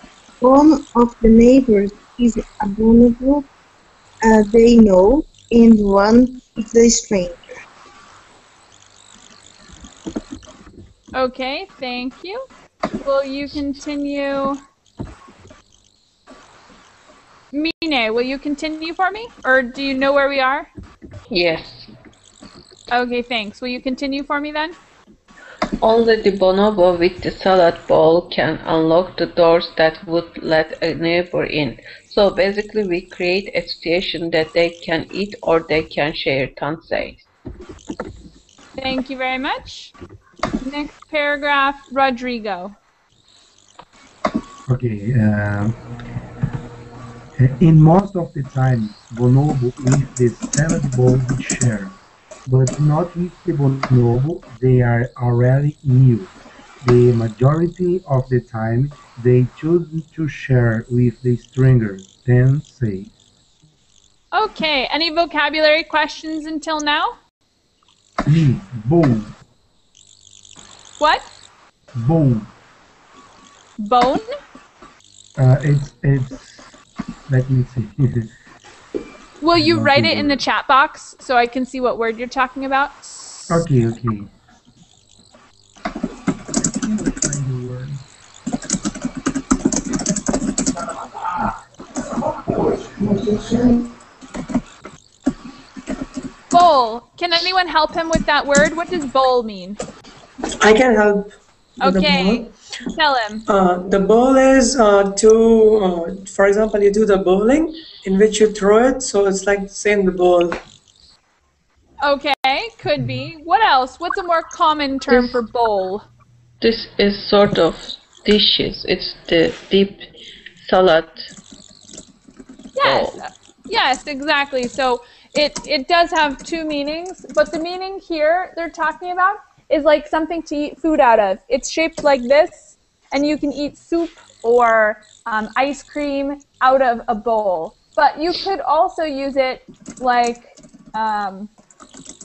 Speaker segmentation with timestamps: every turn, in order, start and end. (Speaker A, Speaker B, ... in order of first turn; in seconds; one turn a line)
Speaker A: 0.4-3.5
Speaker A: 4.2-7.4
Speaker B: 11.1-12.5
Speaker B: 13.0-14.6
Speaker B: 17.5-20.7
Speaker C: 21.3-21.9
Speaker B: 22.9-24.8
Speaker C: 25.8-37.2
Speaker B: 38.8-39.9
Speaker B: 40.6-42.8
Speaker D: 44.7-45.8
Speaker D: 47.4-51.9
Speaker D: 52.5-63.1
Speaker B: 64.3-67.2
Speaker D: 68.2-69.3
Speaker B: 71.0-71.2
Speaker D: 71.9-72.5
Speaker B: 73.8-74.4
Speaker D: 75.4-76.6
Speaker D: 77.3-78.3
Speaker B: 79.4-83.6
Speaker D: 79.5-80.4
Speaker D: 83.5-84.3
Speaker D: 86.6-88.0
Speaker D: 93.0-93.6
Speaker B: 96.5-99.8
Speaker E: 100.6-102.5
Speaker B: 101.8-103.4
Speaker E: 103.5-110.6
Speaker B: 112.0-116.0
Speaker C: 115.1-115.4
Speaker C: 116.6-120.0
Speaker C: 120.6-121.3
Speaker B: 122.8-141.5
Speaker C: 122.8-123.2